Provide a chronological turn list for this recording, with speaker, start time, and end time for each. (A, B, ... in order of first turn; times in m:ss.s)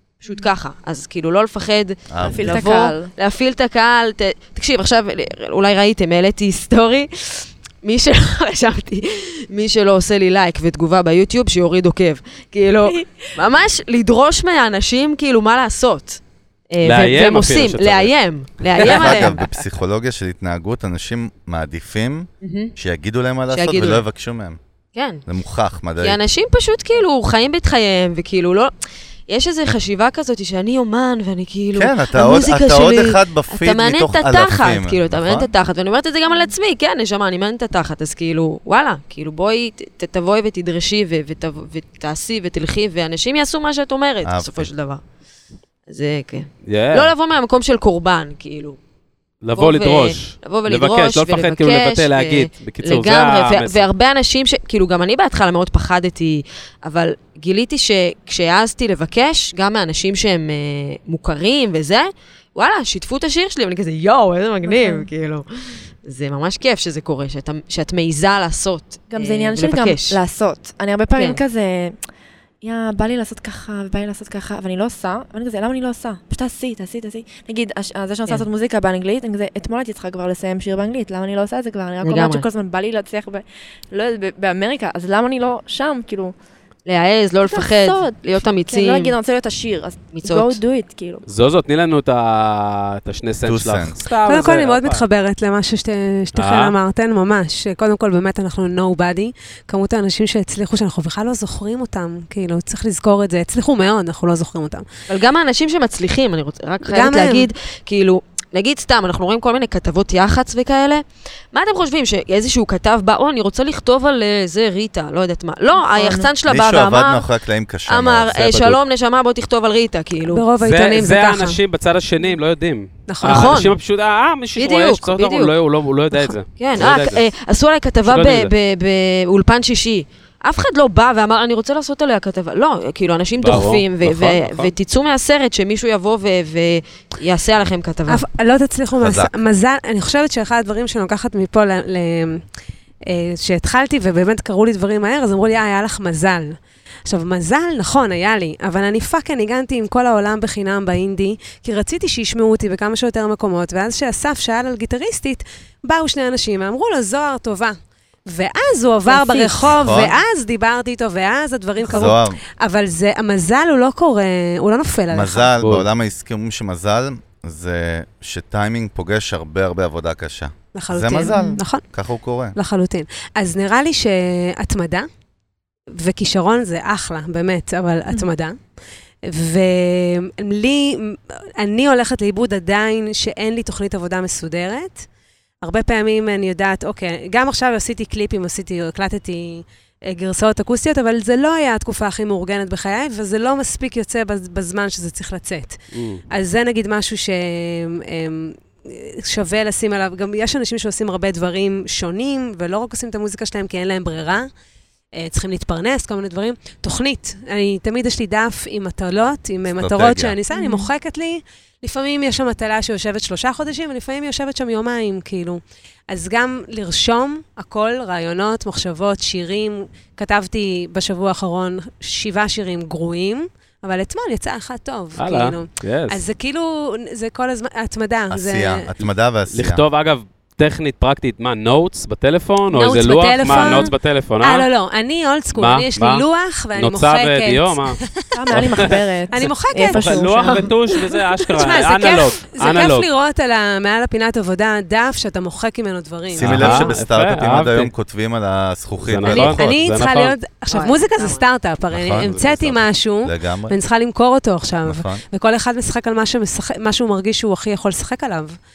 0:00.2-0:19.4 A
0:02.1-0:02.7 B
0:02.2-0:03.1 C
0:13.0-0:13.3 C
0:16.8-0:18.1 D
0:18.7-0:19.5 D
0:18.8-0:24.6 B
0:22.4-0:22.7 A
0:23.5-0:24.0 A
0:24.9-0:25.2 A
0:25.3-0:26.2 B
0:26.0-0:28.7 A
0:29.3-0:45.0 A
0:31.7-0:35.5 B
0:44.2-0:44.7 B
0:45.9-0:48.8 A
0:46.6-0:47.1 D
0:49.4-0:53.8 D
0:49.5-1:10.2 A
1:04.6-1:05.1 C
1:09.1-1:12.0 C
1:11.1-1:11.4 A
1:12.6-1:26.3 C
1:22.0-1:22.4 A
1:26.8-1:29.2 A
1:27.4-1:31.2 C
1:30.1-1:30.6 A
1:31.2-1:35.0 D
1:33.4-1:34.0 B
1:34.2-1:44.8 E
1:36.4-1:36.7 D
1:45.1-1:57.3 A
1:46.8-1:47.5 E
1:55.8-1:56.3 C
1:56.4-1:58.8 B
1:57.9-2:00.5 A
2:00.3-2:01.6 E
2:00.6-2:07.2 D
2:03.1-2:03.6 E
2:03.2-2:03.8 A
2:04.6-2:05.5 A
2:06.6-2:18.2 A
2:08.0-2:08.5 D
2:13.4-2:14.7 D
2:18.1-2:22.4 E
2:19.0-2:19.3 B
2:23.0-2:45.5 E
2:39.1-2:39.4 C
2:39.2-2:39.5 A
2:39.6-2:40.2 B
2:41.8-2:42.4 B
2:45.1-2:52.6 B
2:45.6-2:45.8 D
2:50.7-2:51.8 E
2:51.3-2:51.6 C
2:52.5-2:55.1 E
2:55.9-2:58.6 E
2:59.2-3:05.1 E
3:05.6-3:24.5 E
3:15.9-3:16.2 D
3:25.1-3:48.9 E
3:29.6-3:30.4 B
3:30.5-3:30.9 C
3:45.2-3:46.2 D
3:48.3-3:49.8 B
3:49.5-3:54.7 D
3:52.7-3:58.3 E
3:53.4-3:53.9 C
3:55.5-3:58.0 D
3:58.3-4:00.7 C
3:58.5-3:59.0 B
3:58.6-3:59.0 D
3:59.3-4:00.7 E
3:59.8-4:03.1 D
4:01.5-4:06.9 E
4:06.3-4:09.7 B
4:06.4-4:07.9 D
4:09.0-4:10.3 D
4:09.3-4:18.6 E
4:10.7-4:11.4 A
4:11.9-4:13.8 B
4:14.8-4:15.2 B